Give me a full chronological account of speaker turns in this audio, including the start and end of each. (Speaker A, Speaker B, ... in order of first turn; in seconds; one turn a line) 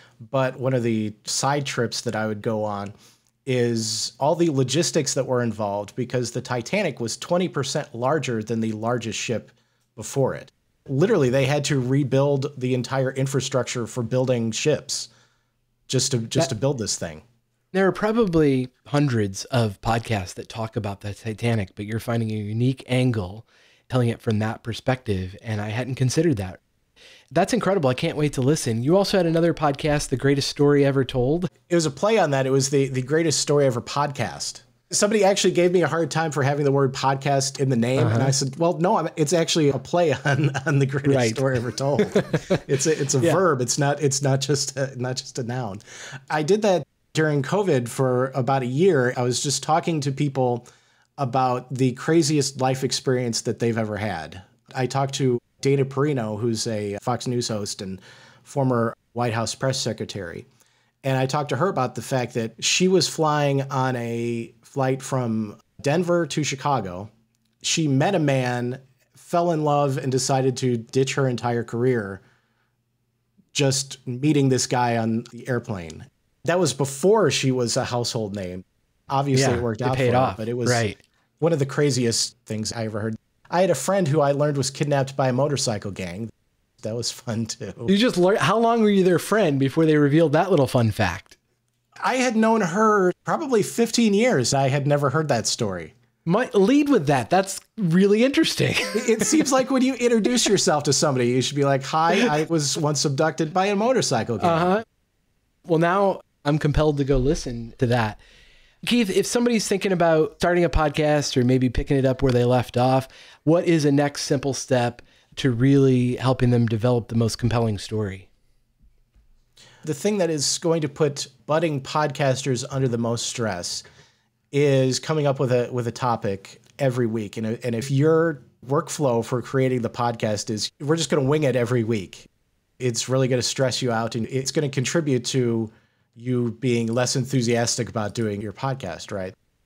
Speaker A: 0.3-2.9
Speaker A: 3.5-15.1
Speaker A: 15.9-17.2
Speaker B: 17.7-26.6
Speaker B: 27.3-31.5
Speaker A: 31.7-50.6
Speaker B: 38.0-38.3
Speaker B: 41.1-41.5
Speaker B: 42.0-42.6
Speaker A: 51.2-60.5
Speaker A: 61.0-67.1
Speaker A: 67.6-72.2
Speaker A: 73.5-80.8
Speaker B: 79.3-81.0
Speaker A: 81.4-86.3
Speaker A: 86.8-87.9
Speaker B: 87.8-91.3
Speaker A: 92.0-95.9
Speaker B: 96.2-99.4
Speaker A: 98.9-104.7
Speaker B: 104.4-104.8
Speaker B: 105.7-108.2
Speaker B: 108.8-118.3
Speaker A: 119.8-123.8
Speaker A: 124.5-132.3
Speaker A: 132.8-139.3